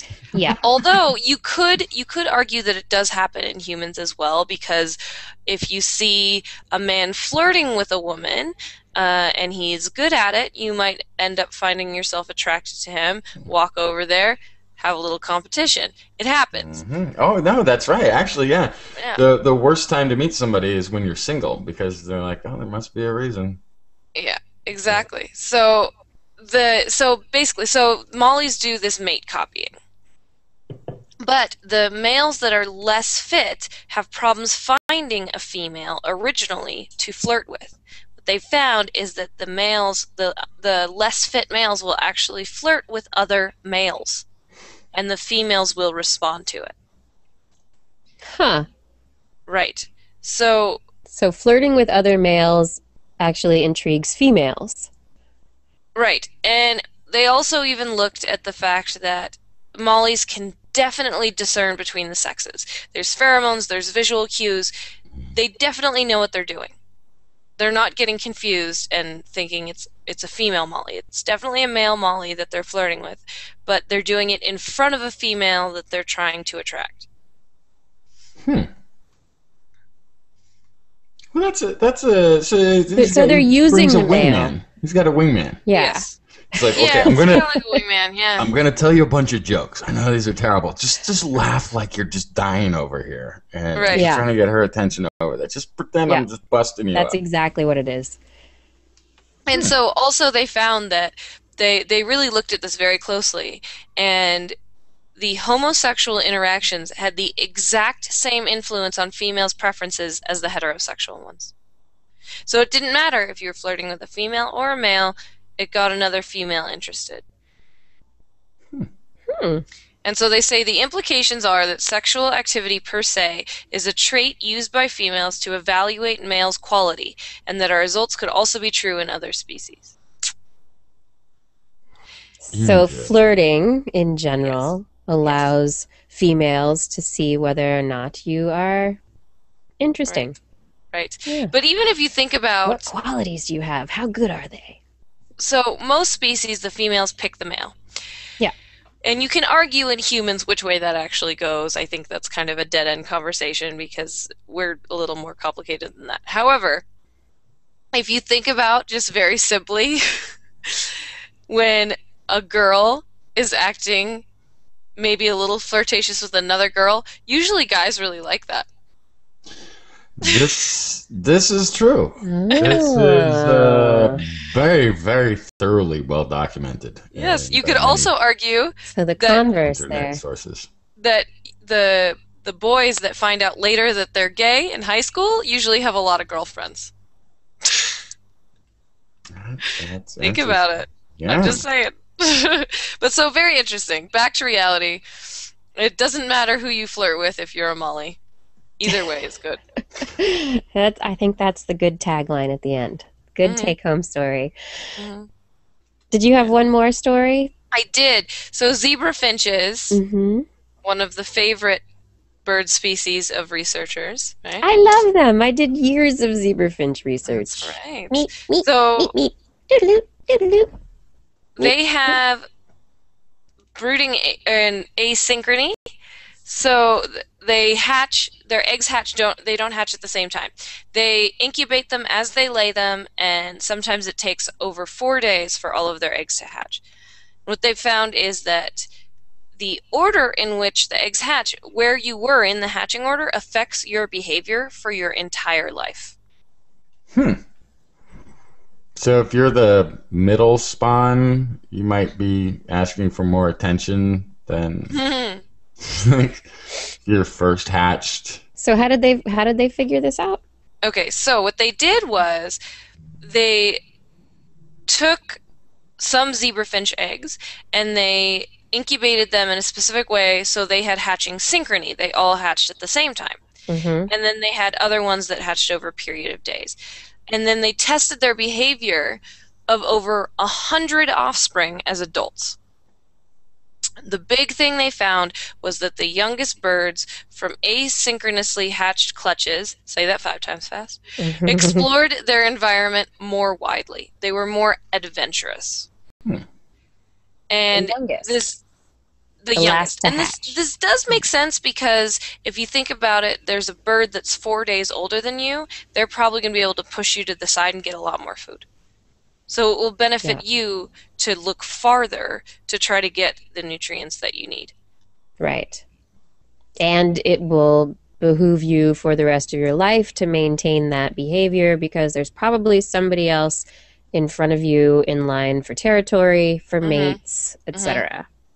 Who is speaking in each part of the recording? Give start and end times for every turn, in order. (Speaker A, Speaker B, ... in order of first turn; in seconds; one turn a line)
Speaker A: 0.6-16.7
Speaker B: 16.5-23.6
Speaker A: 24.1-29.7
Speaker A: 31.2-44.3
Speaker A: 44.9-46.7
Speaker C: 48.3-48.7
Speaker A: 49.5-50.8
Speaker C: 51.1-54.9
Speaker A: 56.0-64.7
Speaker A: 65.3-66.7
Speaker A: 67.6-77.1
Speaker B: 78.4-78.7
Speaker B: 81.3-85.6
Speaker C: 83.0-84.5
Speaker C: 85.7-87.8
Speaker A: 85.7-86.1
Speaker B: 86.5-87.5
Speaker A: 86.8-88.5
Speaker B: 88.4-97.2
Speaker A: 93.8-94.1
Speaker C: 93.9-94.3
Speaker C: 96.9-98.2
Speaker A: 99.5-104.5
Speaker A: 105.2-111.5
Speaker A: 112.5-117.2
Speaker C: 119.3-119.6
Speaker A: 120.0-129.9
Speaker C: 132.4-139.0
Speaker B: 132.5-133.1
Speaker A: 134.4-134.7
Speaker C: 139.8-140.4
Speaker A: 140.9-142.9
Speaker C: 141.3-141.5
Speaker C: 142.6-144.8
Speaker A: 145.4-147.8
Speaker A: 149.0-156.8
Speaker A: 157.9-164.2
Speaker A: 165.0-168.7
Speaker B: 170.2-178.1
Speaker C: 172.2-174.2
Speaker A: 177.1-179.5
Speaker C: 178.9-180.2
Speaker B: 179.7-180.7
Speaker A: 181.0-186.9
Speaker A: 187.6-187.9
Speaker B: 189.3-191.6
Speaker A: 189.7-198.2
Speaker A: 198.8-199.6
Speaker C: 200.1-204.9
Speaker A: 203.4-203.8
Speaker A: 205.0-205.3
Speaker C: 206.1-207.5
Speaker A: 207.7-210.0
Speaker C: 209.9-210.5
Speaker A: 210.8-211.8
Speaker A: 212.4-214.7
Speaker C: 214.6-220.7
Speaker A: 217.3-219.1
Speaker A: 221.6-222.5
Speaker C: 221.6-222.1
Speaker A: 223.8-225.8
Speaker A: 226.4-236.8
Speaker A: 237.5-238.9
Speaker A: 239.6-246.1
Speaker B: 247.1-247.4
Speaker B: 248.9-255.0
Speaker A: 254.9-255.4
Speaker B: 255.8-256.5
Speaker B: 257.1-258.4
Speaker C: 258.6-260.4
Speaker A: 260.8-262.6
Speaker A: 263.2-263.8
Speaker A: 264.9-265.4
Speaker A: 266.0-273.4
Speaker C: 273.7-274.1
Speaker A: 274.1-276.8
Speaker A: 277.3-282.6
Speaker A: 284.0-295.9
Speaker C: 291.2-291.9
Speaker A: 297.5-298.6
Speaker C: 297.7-298.4
Speaker A: 299.4-308.6
Speaker C: 299.6-300.6
Speaker A: 309.5-314.7
Speaker C: 315.4-315.8
Speaker C: 316.8-328.3
Speaker A: 326.8-327.2
Speaker A: 327.7-328.0